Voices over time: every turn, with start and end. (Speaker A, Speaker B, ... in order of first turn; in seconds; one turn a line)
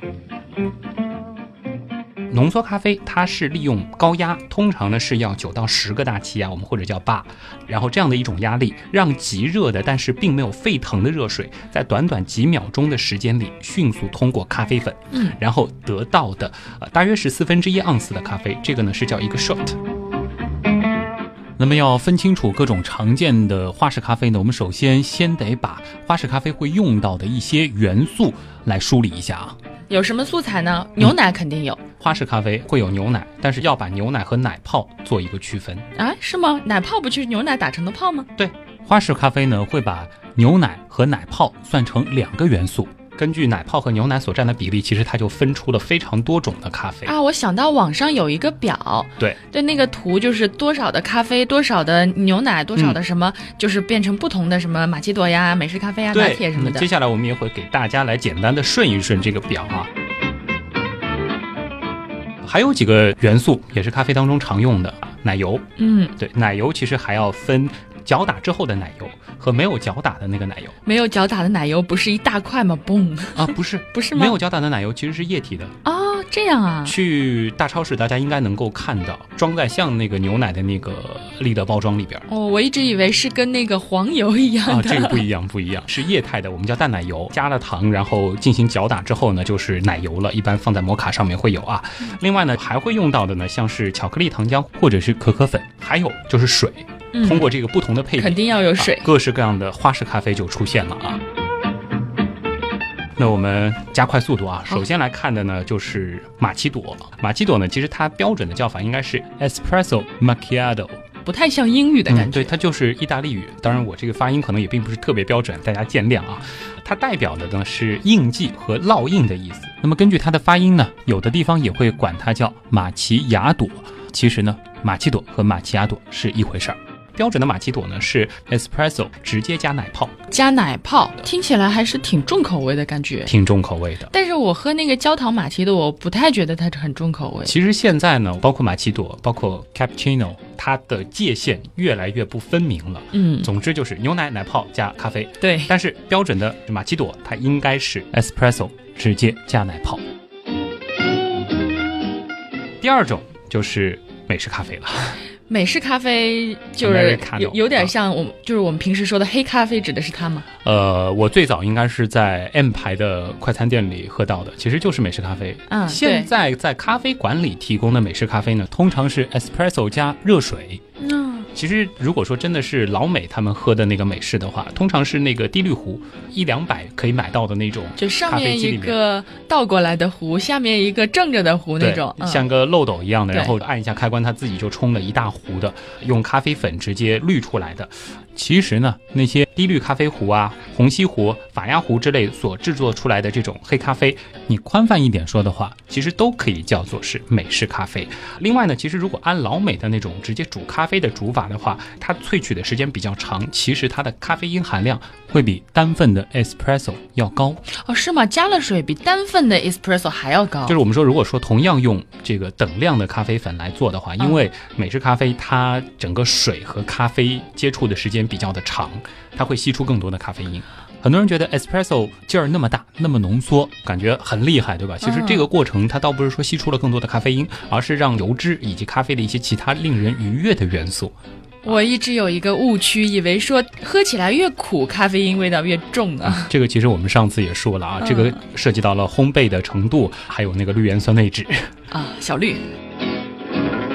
Speaker A: 2.3-19.8
Speaker A: 21.6-29.6
Speaker B: 29.9-31.8
Speaker A: 32.0-35.9
Speaker B: 35.9-38.3
Speaker A: 38.4-47.1
Speaker B: 47.0-56.9
Speaker A: 56.1-59.9
Speaker A: 62.4-70.8
Speaker B: 65.8-66.1
Speaker B: 70.8-74.4
Speaker A: 73.3-75.7
Speaker B: 75.8-77.0
Speaker A: 76.8-82.2
Speaker B: 82.3-85.2
Speaker A: 84.7-101.2
Speaker B: 97.1-97.5
Speaker B: 98.2-99.1
Speaker A: 103.2-111.0
Speaker B: 111.2-112.5
Speaker A: 112.1-130.1
Speaker B: 130.3-133.3
Speaker A: 133.2-134.1
Speaker B: 134.1-137.5
Speaker A: 137.4-150.0
Speaker B: 143.1-143.5
Speaker B: 145.4-145.7
Speaker A: 152.8-155.2
Speaker B: 155.5-160.4
Speaker A: 156.8-157.9
Speaker A: 160.6-170.8
Speaker B: 165.7-166.3
Speaker B: 171.0-171.5
Speaker A: 171.5-179.0
Speaker B: 178.0-182.4
Speaker A: 181.8-207.6
Speaker B: 207.7-210.8
Speaker A: 210.7-231.1
Speaker B: 225.0-225.5
Speaker B: 231.6-236.5
Speaker A: 236.2-241.7
Speaker B: 238.0-238.3
Speaker B: 241.9-242.6